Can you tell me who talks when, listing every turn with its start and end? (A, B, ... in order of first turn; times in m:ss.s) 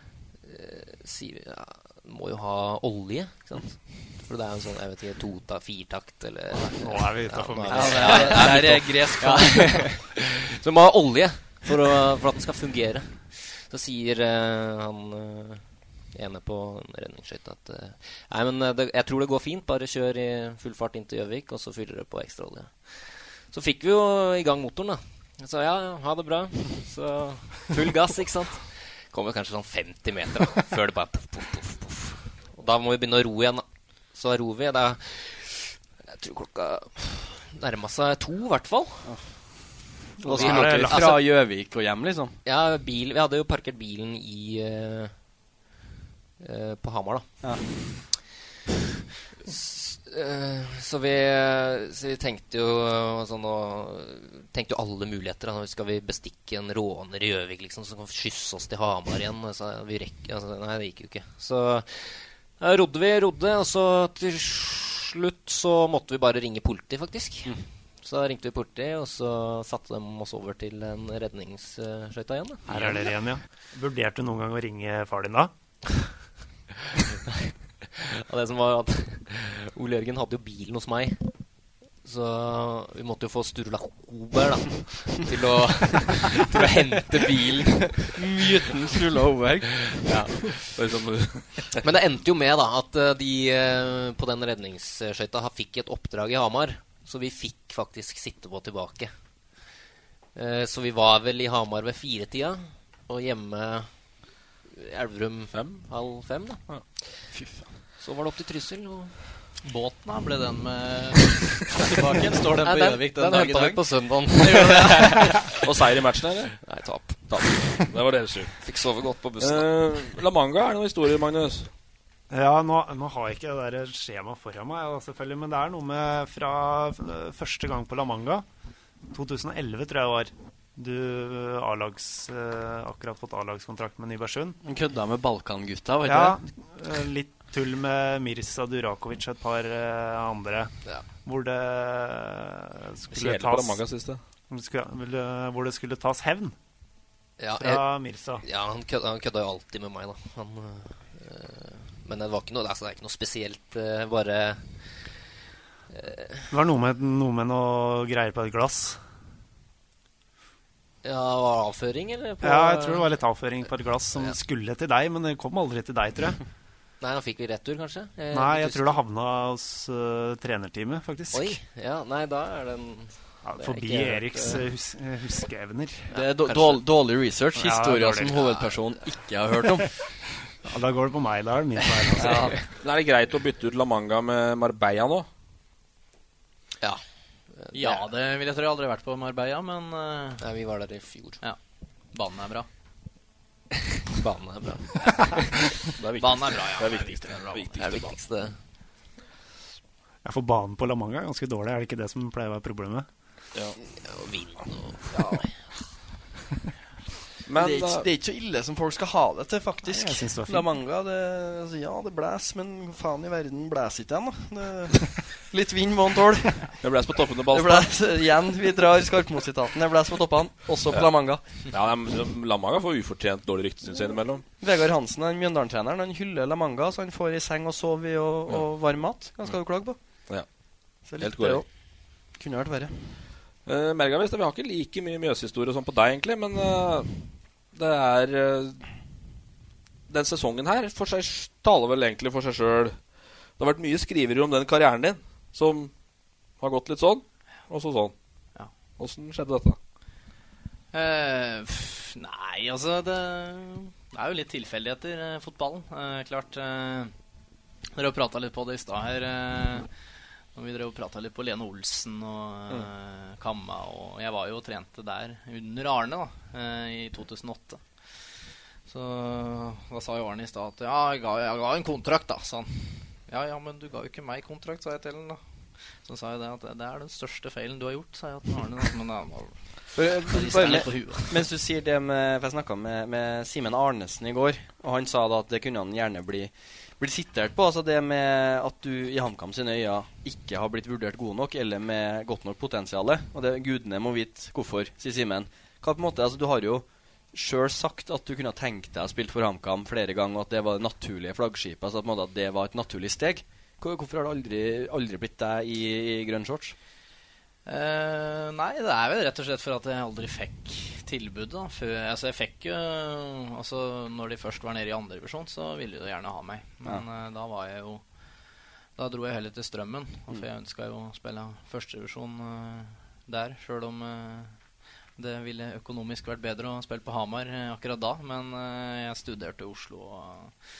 0:00.4-0:39.1 A
0:06.6-0:08.9 B
0:07.7-0:09.9 C
0:40.2-0:41.2 B
0:40.2-0:42.4 C
0:40.3-0:41.2 A
0:42.4-0:45.1 A
0:46.4-0:47.4 A
0:49.4-1:12.8 A
1:12.7-1:15.5 B
1:16.9-1:21.2 A
1:22.0-1:28.4 A
1:28.1-1:29.9 C
1:29.9-1:30.6 A
1:30.7-1:31.8 D
1:31.7-1:39.1 A
1:40.3-1:43.9 A
1:44.6-1:47.2 A
1:45.5-1:45.9 D
1:47.3-1:47.7 C
1:48.0-1:49.2 A
1:49.6-1:55.4 E
1:52.6-1:55.5 A
1:55.5-1:56.6 D
1:56.6-1:57.9 A
1:57.3-1:58.5 D
1:58.6-2:00.2 A
1:59.4-2:01.7 D
2:02.3-2:08.4 B
2:09.1-2:14.6 B
2:14.6-2:16.4 C
2:16.0-2:20.7 B
2:21.2-2:23.8 B
2:23.1-2:24.2 D
2:24.5-2:26.5 B
2:27.4-2:27.9 A
2:27.6-2:28.4 B
2:28.4-2:35.1 A
2:35.9-2:36.5 A
2:36.5-2:39.0 B
2:41.0-2:43.2 A
2:42.4-2:46.4 B
2:47.0-2:49.0 A
2:48.3-2:51.6 B
2:51.3-2:54.7 A
2:53.4-2:56.1 B
2:56.1-2:56.8 A
2:56.1-3:00.0 C
2:57.6-2:58.4 B
2:58.3-2:58.9 A
3:00.6-3:02.6 B
3:02.0-3:02.4 A
3:02.8-3:05.3 D
3:07.5-3:08.1 A
3:07.7-3:10.4 E
3:10.4-3:11.4 A
3:12.1-3:12.7 E
3:14.1-3:15.8 A
3:15.9-3:18.1 D
3:16.2-3:17.9 E
3:17.7-3:18.5 A
3:20.2-3:23.1 B
3:23.8-3:25.6 A
3:27.4-3:28.1 D
3:27.6-3:36.7 C
3:29.8-3:30.7 B
3:36.8-3:37.9 D
3:37.5-3:41.6 C
3:40.9-3:44.4 D
3:44.6-3:50.0 C
3:51.1-3:51.6 C
3:51.2-3:51.6 D
3:52.4-3:53.2 C
3:53.6-3:57.1 D
3:57.7-3:58.9 D
4:00.1-4:03.0 D
4:03.6-4:05.9 D
4:06.6-4:08.1 D
4:09.0-4:09.8 D
4:10.9-4:17.1 E
4:17.9-4:19.9 E
4:20.5-4:27.8 E
4:28.9-4:35.4 E
4:36.0-4:39.5 E
4:39.9-5:06.8 C
4:40.3-4:41.4 E
5:07.6-5:18.0 E
5:19.0-5:24.6 E
5:25.2-5:30.5 E